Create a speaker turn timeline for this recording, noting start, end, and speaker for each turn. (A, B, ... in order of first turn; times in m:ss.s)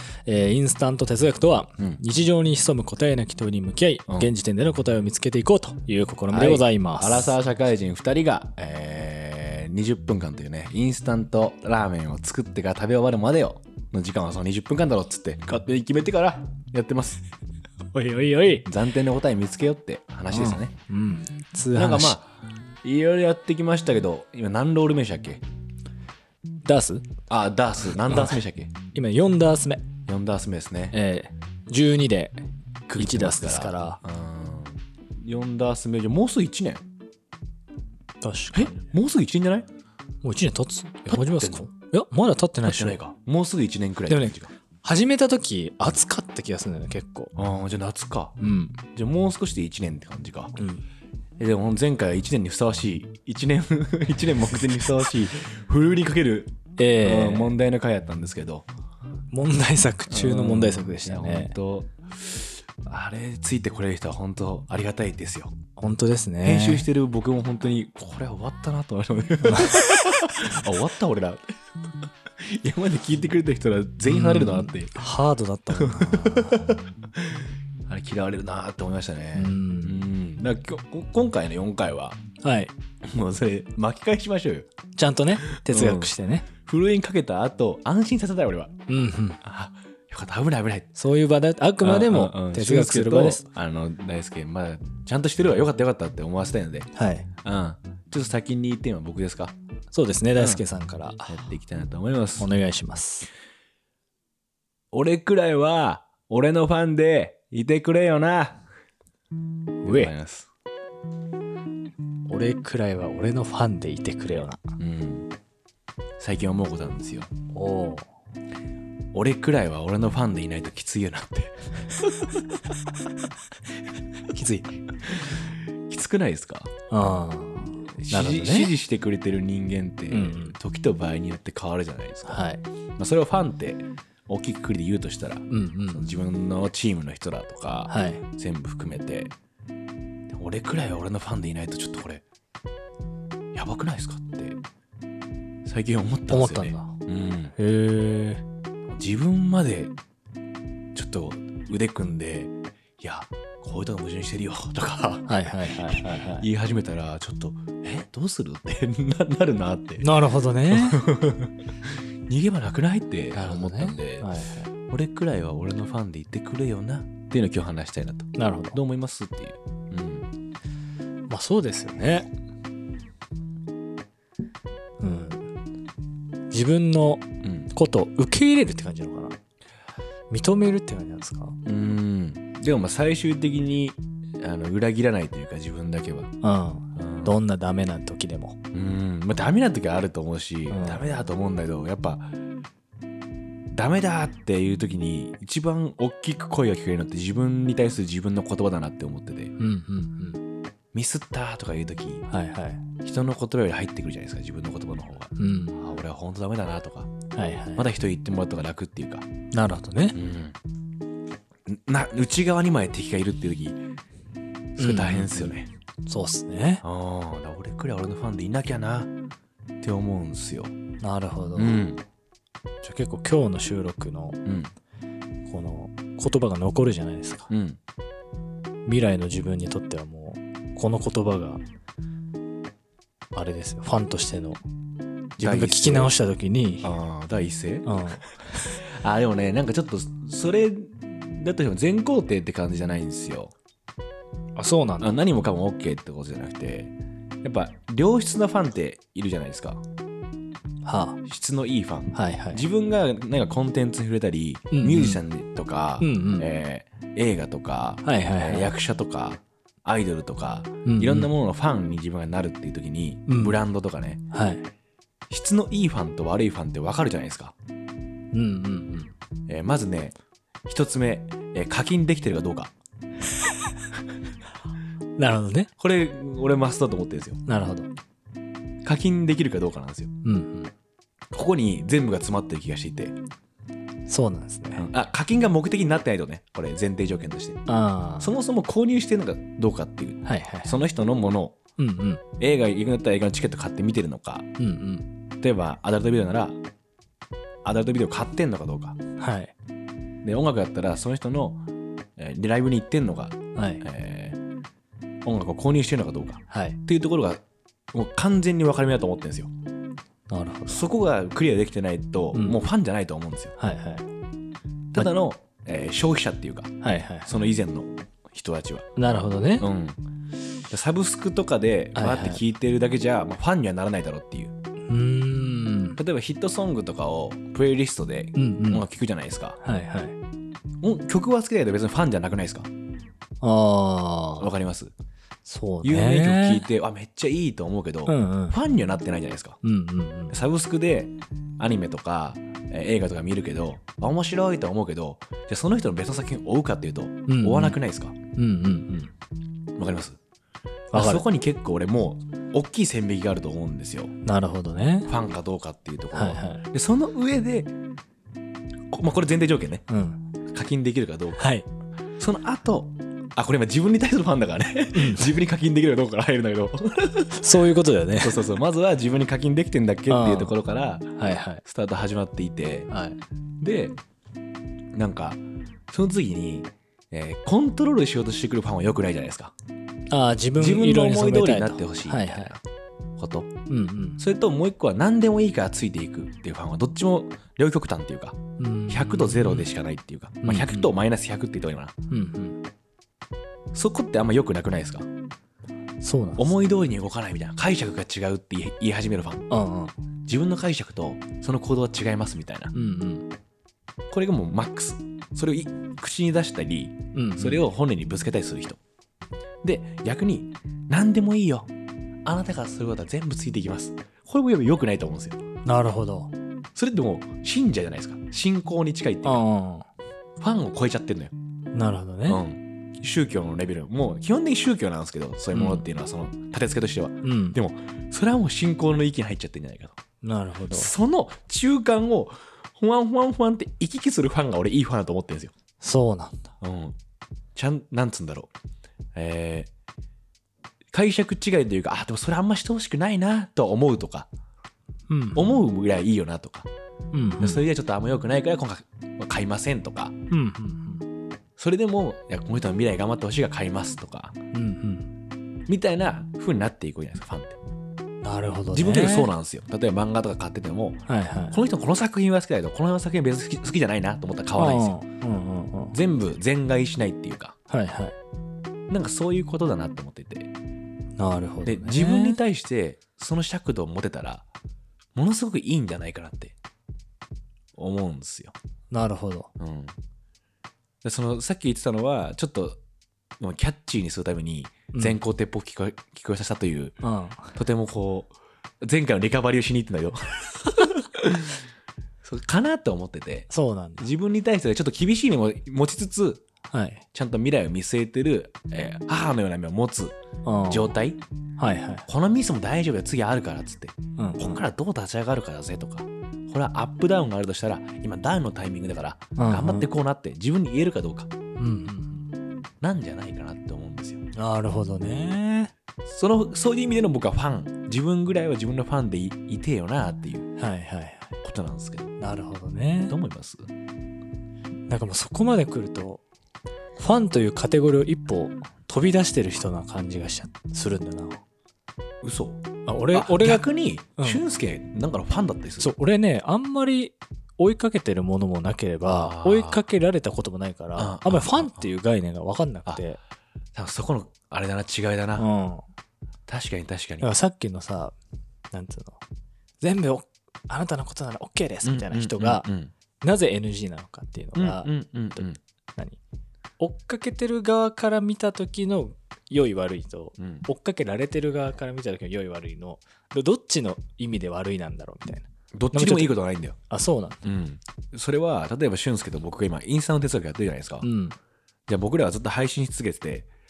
0:00.3-0:07.4 A
0:06.3-0:17.2 B
0:17.9-0:18.7 A
0:18.7-0:20.7 B
0:20.3-0:22.2 A
0:21.8-0:25.4 B
0:26.6-0:27.1 A
0:27.3-0:28.7 B
0:28.1-0:28.4 A
0:28.9-0:29.8 A
0:30.1-0:31.0 B
0:30.9-0:32.4 A
0:32.9-0:36.8 B
0:33.0-0:34.0 A
0:38.2-0:38.8 A
0:38.5-0:39.7 B
0:40.2-0:43.0 A
0:41.1-0:41.6 B
0:42.6-0:44.5 B
0:44.1-0:47.3 A
0:47.4-0:50.6 B
0:48.4-0:48.8 A
0:50.6-0:50.8 A
0:51.4-0:58.7 B
0:56.8-0:57.6 A
0:59.3-1:01.6 A
1:00.1-1:05.6 B
1:05.8-1:06.9 A
1:06.4-1:11.4 B
1:09.4-1:09.8 A
1:12.4-1:15.1 B
1:14.1-1:16.8 A
1:15.7-1:22.2 B
1:19.4-1:20.0 A
1:22.4-1:22.7 A
1:23.0-1:24.7 B
1:25.0-1:26.5 A
1:25.5-1:28.8 B
1:28.9-1:29.4 A
1:29.4-1:30.9 B
1:31.0-1:33.4 A
1:31.8-1:36.9 B
1:36.9-1:37.3 A
1:37.4-1:39.5 B
1:39.9-1:41.4 A
1:40.4-1:40.6 B
1:41.3-1:42.5 B
1:42.4-1:43.3 A
1:44.9-1:48.6 B
1:49.8-1:50.1 A
1:49.8-1:50.5 B
1:52.3-1:54.8 A
1:54.8-1:55.3 B
1:56.2-1:57.3 B
1:57.5-1:58.1 A
1:59.1-2:02.6 B
2:04.4-2:04.8 A
2:05.0-2:06.7 B
2:06.9-2:08.7 A
2:08.0-2:12.4 B
2:10.1-2:10.6 A
2:12.3-2:12.6 A
2:13.0-2:19.3 B
2:15.5-2:16.1 A
2:17.9-2:18.2 A
2:20.3-2:22.2 B
2:23.5-2:24.6 B
2:25.6-2:27.5 B
2:26.3-2:27.0 A
2:27.6-2:28.4 A
2:28.9-2:30.0 B
2:30.9-2:44.3 B
2:35.3-2:36.5 A
2:40.0-2:41.0 A
2:43.3-2:44.7 A
2:44.9-2:50.3 B
2:48.4-2:48.8 A
2:51.3-2:52.3 A
2:55.0-2:55.5 A
2:56.5-2:59.4 A
2:57.4-2:57.7 B
3:00.3-3:01.6 A
3:01.6-3:06.3 B
3:06.4-3:08.6 A
3:07.0-3:07.4 B
3:08.7-3:12.4 B
3:10.7-3:11.0 A
3:13.7-3:19.5 B
3:19.6-3:20.4 A
3:20.9-3:22.2 B
3:22.3-3:22.8 A
3:23.0-3:27.1 B
3:25.4-3:25.8 A
3:27.3-3:27.8 A
3:27.8-3:29.3 B
3:29.5-3:30.2 A
3:30.1-3:30.6 B
3:31.7-3:33.8 B
3:34.8-3:35.7 B
3:34.8-3:35.5 A
3:36.1-3:36.8 A
3:36.8-3:39.1 B
3:39.8-3:40.7 B
3:41.0-3:41.8 A
3:41.6-3:42.0 B
3:42.8-3:44.4 A
3:44.4-3:44.7 B
3:45.5-3:47.5 A
3:47.5-3:47.8 B
3:48.9-3:51.6 A
3:53.4-3:54.6 A
3:55.4-3:56.9 A
3:55.4-3:56.1 B
3:56.8-3:58.0 B
3:57.8-3:58.8 A
3:58.8-4:03.5 B
4:04.6-4:05.2 A
4:05.0-4:09.8 B
4:10.8-4:11.2 A
4:11.2-4:24.2 B
4:12.1-4:12.6 A
4:14.7-4:15.2 A
4:16.0-4:16.5 A
4:18.0-4:18.7 A
4:20.8-4:21.3 A
4:23.3-4:23.6 A
4:24.3-4:24.7 A
4:25.3-4:27.6 B
4:28.3-4:29.1 A
4:29.5-4:32.7 B
4:35.2-4:35.7 A
4:35.8-4:37.4 B
4:37.5-4:37.9 A
4:38.8-4:40.1 B
4:40.2-4:40.7 A
4:41.3-4:43.2 B
4:44.1-4:44.9 A
4:44.8-4:47.6 B
4:47.7-4:48.3 A
4:48.2-4:51.6 B
4:50.2-4:50.8 A
4:51.8-4:52.2 A
4:52.4-4:54.5 B
4:54.6-4:55.0 A
4:55.4-4:56.6 B
4:57.6-4:59.0 B
4:59.2-4:59.5 A
5:00.2-5:01.6 B
5:02.2-5:04.4 B
5:03.6-5:03.8 A
5:05.2-5:07.4 B
5:06.5-5:06.8 A
5:07.9-5:09.5 B
5:10.3-5:10.8 A
5:10.7-5:13.5 B
5:12.3-5:12.6 A
5:13.6-5:14.1 A
5:14.9-5:16.7 B
5:16.8-5:17.3 A
5:17.3-5:18.9 B
5:19.0-5:19.7 A
5:19.6-5:20.0 B
5:20.7-5:24.5 B
5:22.0-5:22.4 A
5:24.9-5:26.0 A
5:26.0-5:29.6 B
5:28.4-5:28.8 A
5:29.6-5:30.2 A
5:30.8-5:32.7 B
5:33.4-5:34.5 A
5:34.4-5:34.9 B
5:35.5-5:36.7 A
5:35.8-5:39.6 B
5:38.1-5:38.6 A
5:39.6-5:40.4 A
5:40.3-5:48.2 B
5:47.3-5:47.8 A
5:48.4-5:49.1 A
5:49.8-5:50.2 B
5:50.9-5:51.2 A
5:50.9-5:54.1 B
5:54.2-5:55.1 A
5:55.1-5:57.7 B
5:56.1-5:56.6 A
5:58.9-5:59.8 B
5:59.9-6:00.2 A
6:00.5-6:01.5 B
6:01.4-6:01.7 A
6:02.2-6:07.4 B
6:05.0-6:05.3 A
6:07.4-6:08.4 A
6:08.2-6:11.1 B
6:10.1-6:10.6 A
6:11.2-6:11.6 A
6:11.6-6:12.9 B
6:12.9-6:13.2 A
6:13.6-6:14.0 B
6:14.9-6:19.5 B
6:20.1-6:22.6 A
6:20.6-6:22.6 B
6:23.2-6:23.5 B
6:23.7-6:24.2 A
6:24.2-6:31.9 B
6:28.6-6:29.7 A
6:30.4-6:30.9 A
6:32.1-6:32.6 A
6:33.7-6:35.1 B
6:36.0-6:36.5 A
6:36.4-6:39.5 B
6:39.5-6:39.9 A
6:40.3-6:42.7 B
6:42.7-6:43.3 A
6:44.1-6:48.8 B
6:47.1-6:47.6 A
6:49.6-6:51.7 B
6:52.2-6:55.4 B
6:55.6-6:56.3 A
6:56.8-6:59.4 B
6:59.2-6:59.9 A
7:00.4-7:01.3 B
7:01.7-7:02.4 A
7:02.3-7:10.0 B
7:05.5-7:05.9 A
7:07.2-7:07.6 A
7:10.2-7:10.9 A
7:10.7-7:15.5 B
7:15.8-7:16.5 A
7:16.6-7:17.0 B
7:17.6-7:18.5 B
7:19.2-7:19.7 B
7:20.9-7:24.3 B
7:25.1-7:25.4 A
7:25.4-7:26.7 B
7:27.1-7:27.7 A
7:27.4-7:30.2 B
7:30.3-7:31.0 A
7:31.6-7:34.4 B
7:34.5-7:35.1 A
7:35.7-7:37.6 B
7:38.2-7:39.3 A
7:38.7-7:45.0 B
7:41.1-7:41.6 A
7:44.6-7:46.0 A
7:45.9-7:47.6 B
7:47.7-7:48.2 A
7:48.9-7:50.5 B
7:51.2-7:52.4 A
7:51.6-7:54.4 B
7:55.2-7:56.6 B
7:57.8-7:58.6 B
7:58.9-7:59.5 A
7:59.6-8:00.0 B
8:01.0-8:02.8 B
8:03.4-8:07.0 B
8:04.9-8:05.2 A
8:07.0-8:07.6 A
8:07.6-8:11.6 B
8:12.2-8:16.4 B
8:13.5-8:14.1 A
8:16.7-8:17.0 A
8:17.1-8:20.2 B
8:20.4-8:20.9 A
8:20.7-8:21.2 B
8:21.6-8:22.1 A
8:22.1-8:31.3 B
8:24.2-8:24.6 A
8:29.4-8:29.9 A
8:31.6-8:32.3 A
8:32.8-8:34.2 B
8:34.4-8:35.7 A
8:36.1-8:40.5 B
8:40.6-8:41.3 A
8:41.4-8:42.1 B
8:42.2-8:43.2 A
8:43.1-8:43.7 B
8:44.9-8:46.2 A
8:47.0-8:51.4 A
8:52.2-8:55.9 B
8:52.9-8:53.7 A
8:54.2-8:54.4 A
8:55.8-9:03.2 A
8:59.1-8:59.8 B
9:01.0-9:01.9 B
9:03.7-9:05.5 B
9:05.4-9:05.8 A
9:06.5-9:07.3 B
9:07.2-9:08.2 A
9:08.7-9:09.2 A
9:09.8-9:12.6 A
9:11.8-9:12.9 B
9:13.2-9:14.9 A
9:14.6-9:15.6 B
9:16.8-9:26.4 A
9:20.4-9:20.7 B
9:25.7-9:26.8 B
9:26.9-9:27.4 A
9:27.4-9:31.1 B
9:31.0-9:31.4 A
9:31.9-9:33.5 B